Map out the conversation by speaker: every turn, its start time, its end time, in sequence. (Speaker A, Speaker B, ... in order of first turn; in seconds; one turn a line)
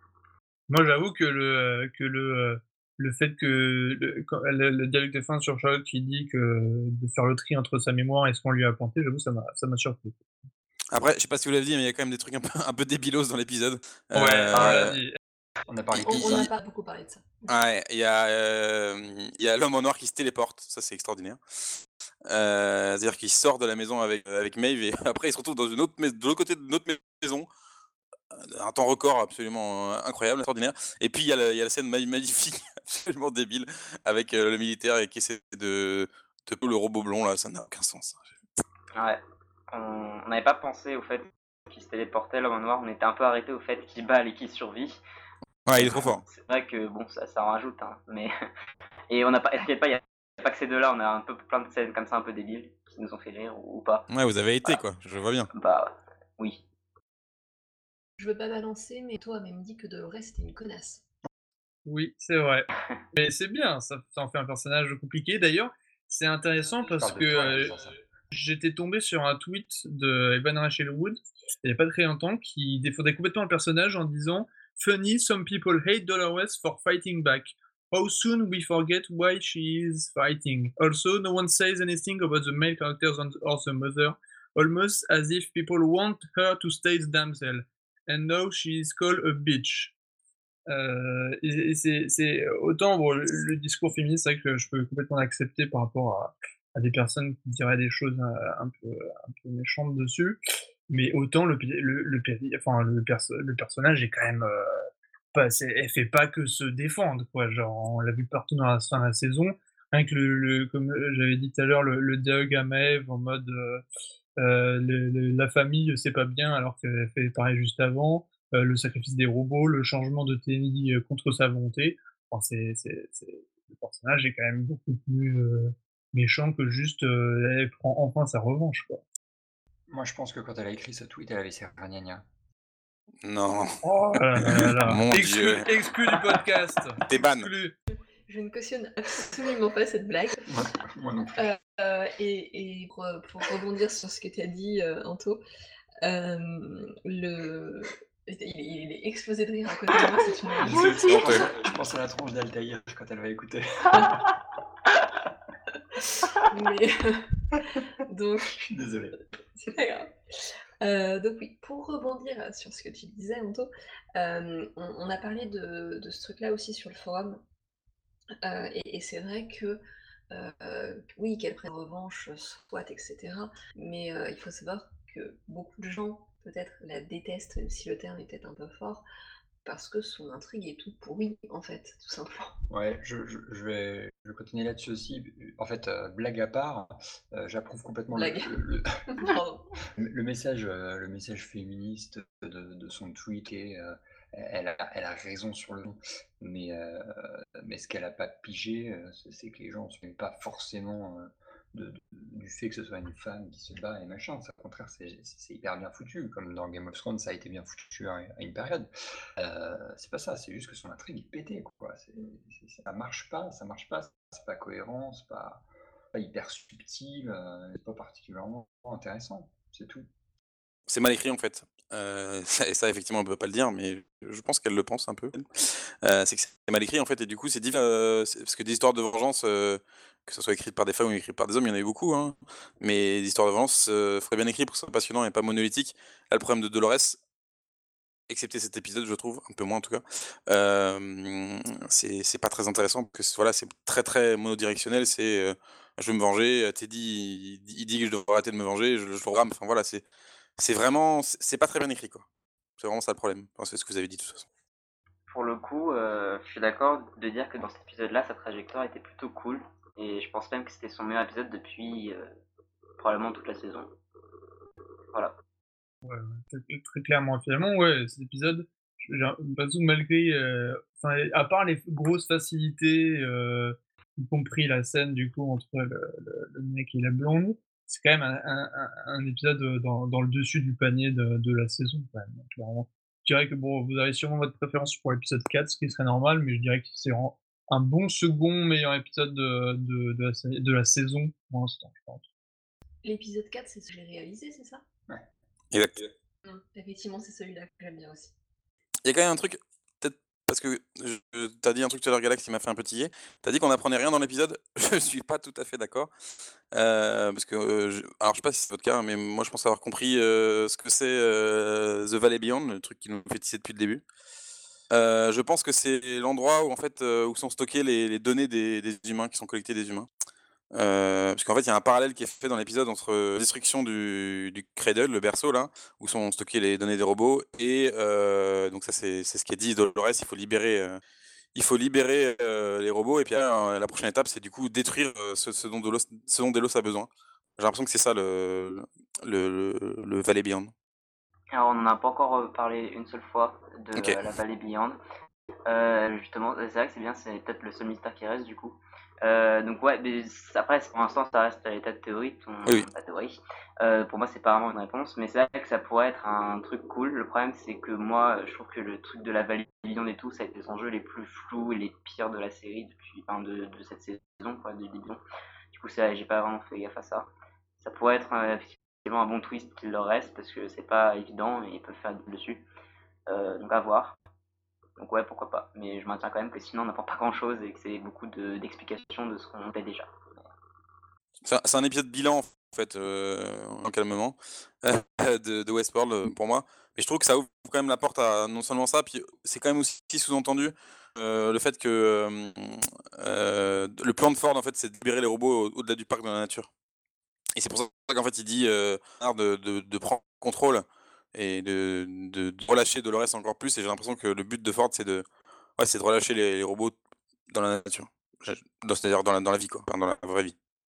Speaker A: 0.7-10.2
Speaker B: 10.9-15.0
Speaker A: 14.1-15.2
Speaker C: 15.7-16.5
Speaker D: 15.9-17.5
Speaker B: 15.9-16.5
Speaker B: 17.5-21.4
Speaker B: 22.3-27.5
Speaker B: 28.3-38.3
Speaker E: 38.9-45.0
Speaker B: 45.6-46.2
Speaker E: 45.8-48.3
Speaker E: 49.1-54.1
Speaker B: 54.1-55.5
Speaker E: 55.5-56.6
Speaker D: 58.2-61.0
Speaker A: 61.9-89.9
Speaker C: 66.8-68.0
Speaker A: 90.7-100.4
Speaker A: 100.9-113.8
Speaker A: 114.4-129.0
Speaker C: 129.9-132.2
Speaker B: 133.2-133.8
Speaker A: 133.8-137.7
Speaker B: 134.4-135.7
Speaker B: 137.0-137.5
Speaker D: 138.3-140.5
Speaker C: 140.4-141.5
Speaker D: 141.3-145.4
Speaker D: 146.0-151.6
Speaker C: 150.6-154.1
Speaker B: 151.1-151.5
Speaker D: 156.5-157.3
Speaker D: 158.0-158.6
Speaker C: 158.6-159.2
Speaker D: 159.6-167.4
Speaker D: 168.4-179.0
Speaker D: 179.6-182.6
Speaker C: 182.7-188.9
Speaker D: 188.1-188.5
Speaker D: 189.1-189.8
Speaker C: 189.9-220.1
Speaker B: 220.9-225.5
Speaker B: 226.0-237.2
Speaker B: 238.3-250.0
Speaker B: 250.6-252.2
Speaker B: 252.8-254.5
Speaker E: 255.3-262.3
Speaker E: 263.0-263.9
Speaker A: 266.0-292.2
Speaker D: 293.0-294.8
Speaker B: 295.7-296.1
Speaker D: 296.4-298.3
Speaker B: 299.0-306.1
Speaker B: 306.7-314.0
Speaker B: 314.9-320.1
Speaker B: 320.7-331.0
Speaker B: 331.5-340.7
Speaker E: 341.5-345.0
Speaker E: 345.6-367.3
Speaker B: 352.6-352.9
Speaker E: 367.8-372.6
Speaker E: 373.3-374.1
Speaker E: 375.0-380.1
Speaker B: 381.4-396.7
Speaker B: 397.6-405.2
Speaker B: 405.8-407.0
Speaker B: 407.5-410.5